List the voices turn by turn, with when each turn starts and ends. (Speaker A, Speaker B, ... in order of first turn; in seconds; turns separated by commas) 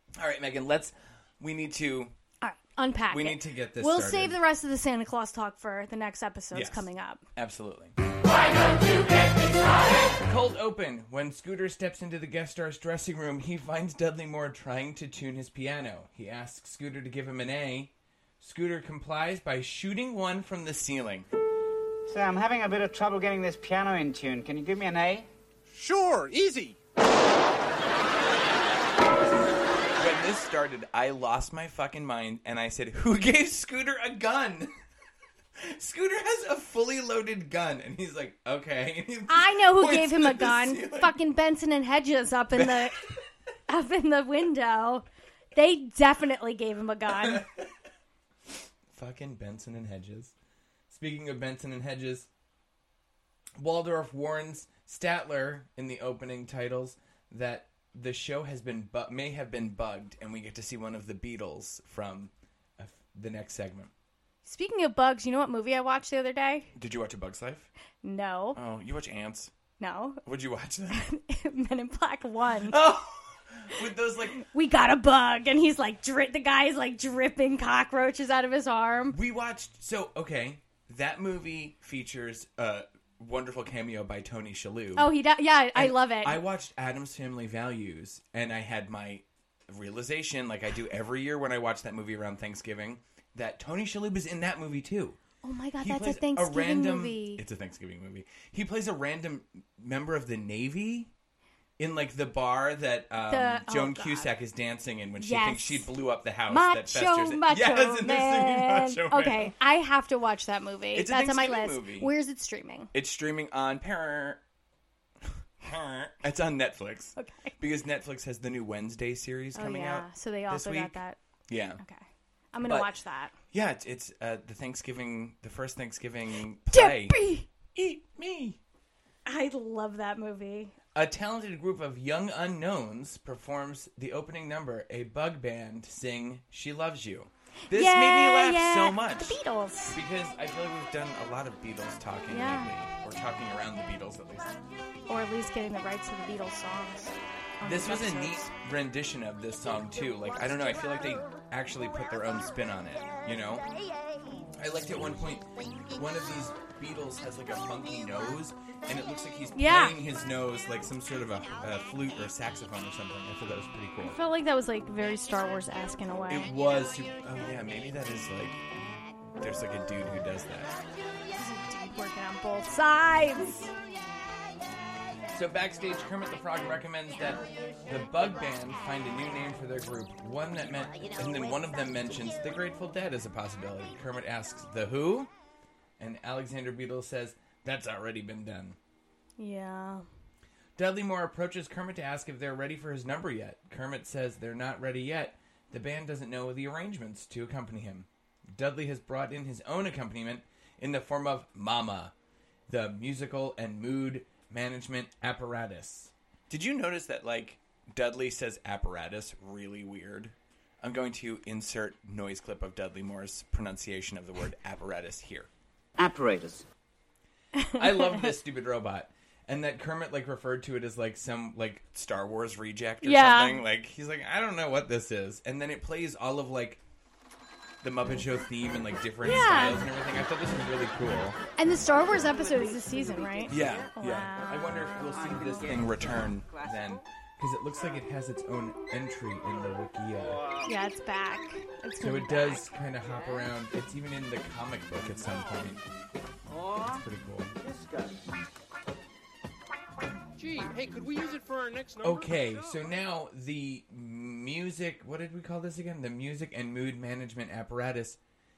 Speaker A: 0.2-2.1, Speaker B: 2.4-7.2, Speaker A: 3.1-4.4, Speaker A: 6.5-8.0, Speaker A: 9.9-21.2, Speaker C: 22.1-25.3, Speaker D: 25.7-26.8, Speaker A: 30.0-34.7, Speaker A: 35.6-41.1, Speaker B: 39.3-43.1, Speaker A: 42.5-42.9, Speaker B: 43.7-47.5, Speaker A: 47.2-47.6, Speaker A: 48.9-50.3, Speaker A: 50.9-52.3, Speaker A: 53.6-63.9, Speaker B: 64.4-66.7, Speaker A: 66.7-67.7, Speaker B: 68.0-68.6, Speaker A: 68.5-69.5, Speaker B: 69.8-70.2, Speaker A: 70.2-71.1, Speaker B: 70.9-72.8, Speaker A: 72.7-74.4, Speaker B: 74.3-79.2, Speaker A: 79.1-85.1, Speaker B: 85.0-86.4, Speaker A: 85.7-95.2, Speaker B: 95.4-97.4, Speaker A: 95.8-101.1, Speaker A: 101.8-109.5, Speaker B: 103.3-104.3, Speaker B: 105.2-105.9, Speaker B: 106.5-112.9, Speaker A: 110.9-112.1, Speaker A: 112.9-114.4, Speaker A: 115.6-121.8, Speaker B: 117.2-117.5, Speaker B: 119.5-121.2, Speaker B: 121.8-123.3, Speaker A: 122.6-122.9, Speaker A: 123.5-127.2, Speaker B: 126.7-127.5, Speaker A: 127.7-128.6, Speaker B: 129.2-130.7, Speaker A: 130.9-139.4, Speaker B: 137.7-140.0, Speaker A: 139.9-144.5, Speaker B: 142.3-142.7, Speaker B: 145.1-148.5, Speaker A: 147.6-153.6, Speaker A: 154.6-164.2, Speaker B: 159.5-160.0, Speaker B: 164.0-166.5, Speaker A: 166.3-168.6, Speaker A: 169.4-170.8, Speaker B: 171.3-173.7, Speaker A: 175.3-185.3, Speaker A: 186.0-188.8, Speaker B: 189.4-190.0, Speaker A: 190.8-202.1, Speaker A: 202.7-215.5, Speaker C: 216.0-216.7, Speaker B: 217.5-218.3, Speaker A: 217.7-226.8, Speaker B: 223.0-223.6, Speaker A: 227.8-231.4, Speaker B: 229.2-229.8, Speaker B: 231.6-234.8, Speaker A: 233.4-240.4, Speaker B: 240.6-242.7, Speaker A: 242.0-245.8, Speaker A: 246.8-247.5, Speaker D: 247.7-248.1, Speaker D: 250.3-252.9, Speaker A: 252.0-258.2